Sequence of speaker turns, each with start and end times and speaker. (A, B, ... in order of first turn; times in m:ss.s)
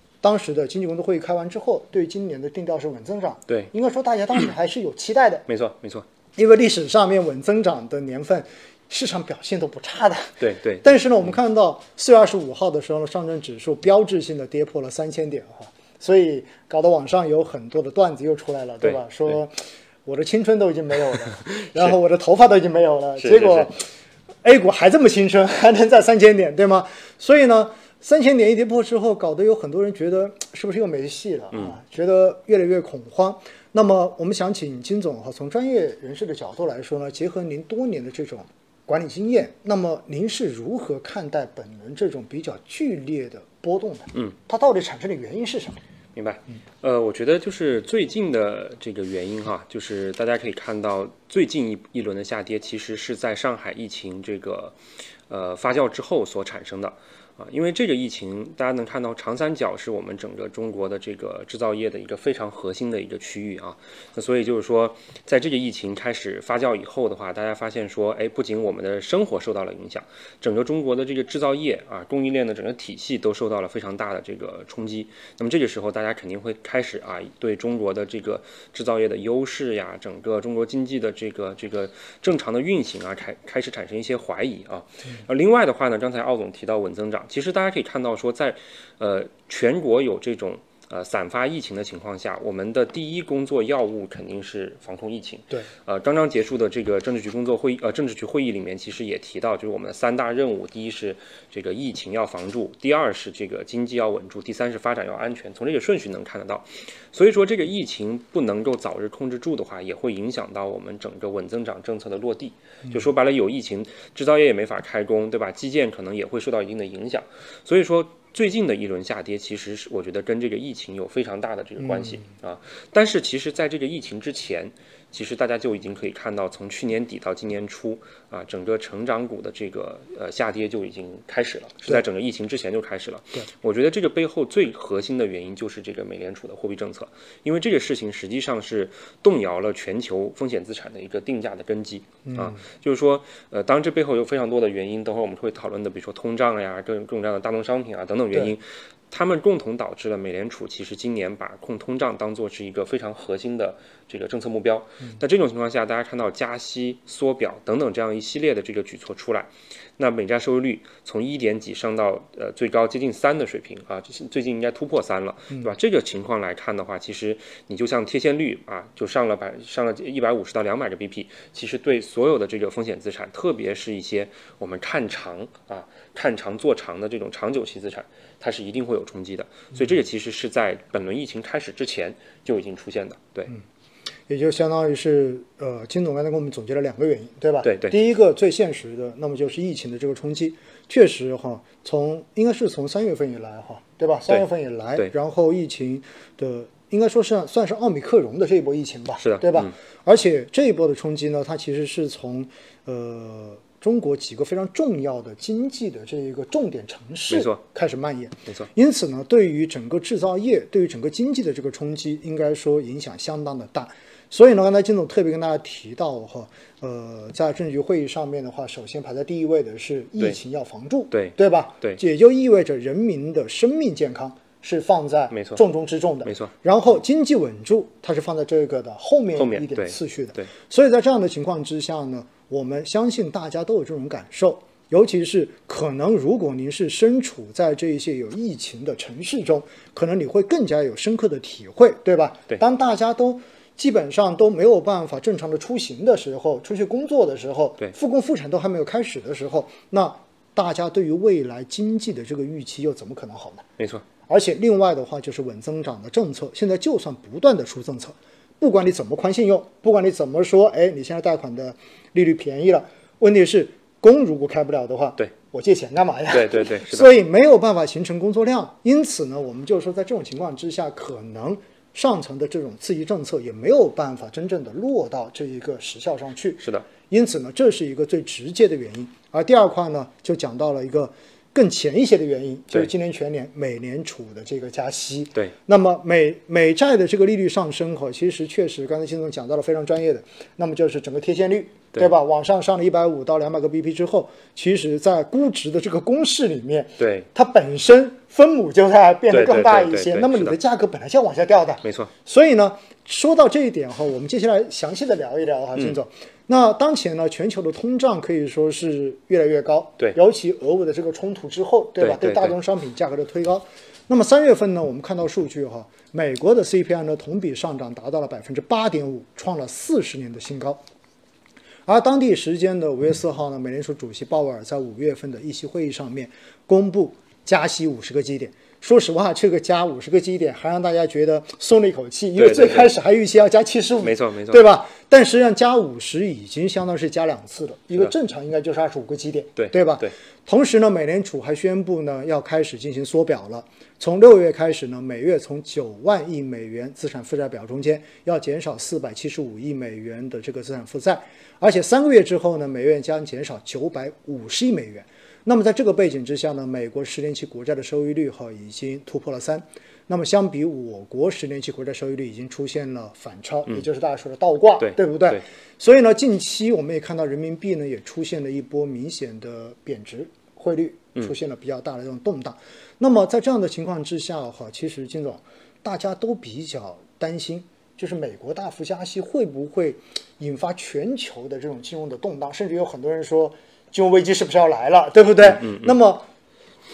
0:00.2-0:05.4 A
0:05.5-0:06.0 B
0:06.4-0:19.5 A
0:10.4-0:11.0 B
0:20.0-0:23.8 A
0:23.2-0:23.7 B
0:24.4-0:45.8 A
0:46.1-0:54.8 B
0:55.3-3:03.5 B
2:22.2-2:22.6 A
3:04.3-4:13.6 A
3:07.6-3:08.0 B
3:19.2-3:19.7 B
3:27.3-3:27.6 B
3:41.1-3:42.0 B
3:45.3-3:45.6 B
3:46.2-3:46.5 B
3:49.4-3:50.5 B
4:13.8-4:14.0 B
4:14.3-5:20.8 A
4:26.3-4:27.1 B
4:36.6-4:36.8 B
4:57.0-4:57.3 B
4:59.3-5:00.6 B
5:01.8-5:02.1 B
5:12.0-5:12.5 B
5:21.8-6:26.2 A
5:32.4-5:32.9 B
5:34.0-5:34.6 B
5:39.6-5:40.1 B
6:04.8-6:05.4 B
6:25.4-6:25.9 B